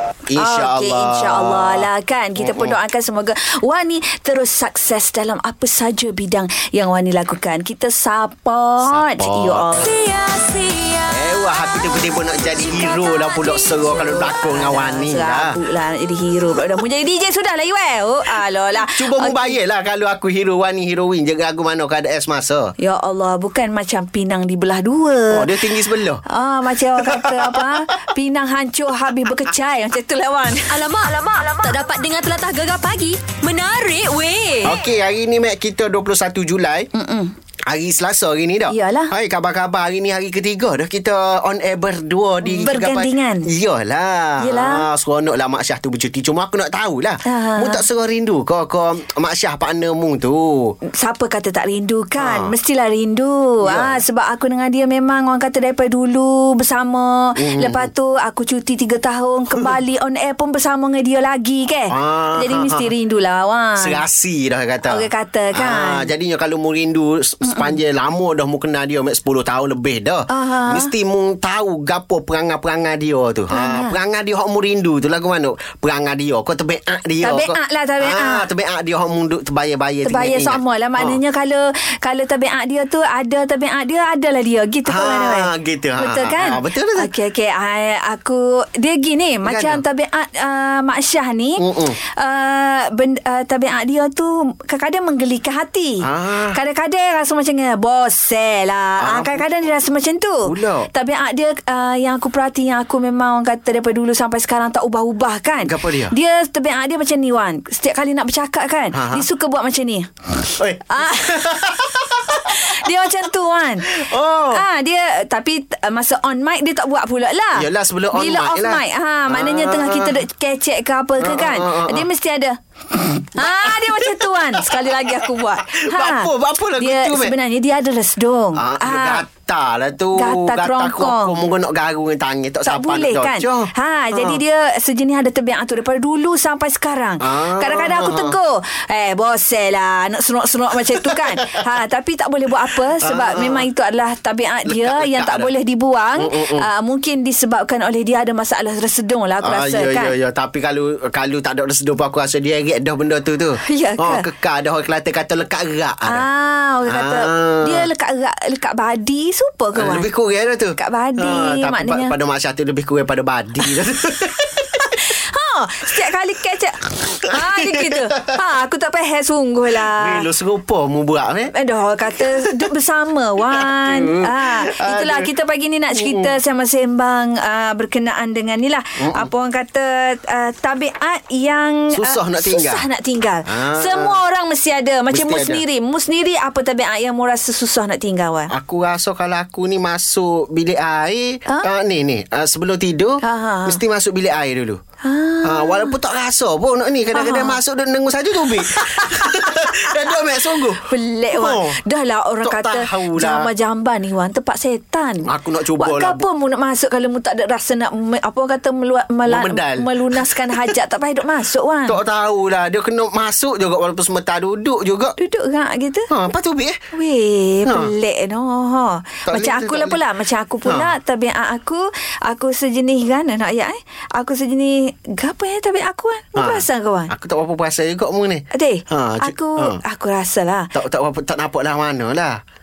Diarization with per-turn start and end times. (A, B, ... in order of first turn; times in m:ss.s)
0:00.3-0:02.8 A
0:00.4-0:10.0 B
0:08.8-0:09.9 A
0:09.9-0:11.1 C
0:11.1-0:15.6 A
0:12.6-0:19.6 B
0:18.9-0:22.7 A
0:22.8-0:25.5 B
0:25.3-0:26.2 A
0:26.3-0:30.7 B
0:27.0-0:27.8 A
0:30.7-0:34.8 C
0:34.6-0:36.9 A
0:36.9-0:37.3 B
0:37.7-0:50.8 A
0:38.7-0:39.1 B
0:42.4-0:43.5 B
0:44.4-0:44.9 B
0:47.3-0:47.8 B
0:50.9-1:04.0 B
0:52.2-0:52.5 A
0:53.6-0:54.0 A
0:57.4-0:57.9 A
1:01.9-1:02.9 A
1:03.8-1:21.2 A
1:04.9-1:06.1 B
1:07.4-1:07.8 B
1:10.3-1:10.9 B
1:13.5-1:14.0 B
1:17.2-1:18.5 B
1:20.0-1:31.6 B
1:24.9-1:27.1 A
1:29.4-1:29.8 A
1:31.6-1:32.0 A
1:32.2-1:51.4 B
1:36.0-1:36.6 A
1:39.0-1:39.4 A
1:40.5-1:40.9 A
1:45.7-1:46.1 A
1:48.9-1:49.3 A
1:50.6-1:52.7 A
1:52.3-2:09.2 B
1:53.9-1:54.6 A
1:57.6-2:00.2 A
2:01.2-2:02.1 A
2:03.4-2:07.4 A
2:08.6-2:14.4 A
2:10.2-2:11.4 B
2:12.6-2:30.1 B
2:17.2-2:18.4 A
2:21.0-2:21.4 A
2:23.0-2:23.7 A
2:24.7-2:25.5 A
2:26.2-2:26.7 A
2:29.4-2:36.2 A
2:33.6-2:34.3 B
2:36.1-2:40.1 B
2:36.9-2:37.9 A
2:39.8-2:44.9 A
2:40.8-2:42.1 B
2:44.9-2:50.3 B
2:47.3-2:48.4 A
2:49.8-2:51.5 A
2:51.5-3:08.5 B
2:52.2-2:52.7 A
2:53.4-2:55.3 A
2:55.9-2:56.4 A
2:59.0-2:59.3 A
3:01.9-3:02.8 A
3:03.5-3:04.2 A
3:05.1-3:05.6 A
3:08.5-3:14.8 A
3:13.2-3:13.8 B
3:15.0-3:15.9 B
3:15.4-3:21.8 A
3:17.1-3:17.6 B
3:19.0-3:19.9 B
3:20.8-3:32.0 B
3:22.4-3:23.5 A
3:25.2-3:26.2 A
3:29.3-3:30.7 A
3:31.9-3:35.2 A
3:35.2-3:36.1 B
3:36.1-3:36.8 A
3:36.9-3:47.1 B
3:37.7-3:37.9 A
3:39.3-3:40.0 A
3:40.7-3:40.9 A
3:46.4-3:49.8 A
3:48.5-3:50.7 B
3:50.7-3:52.4 A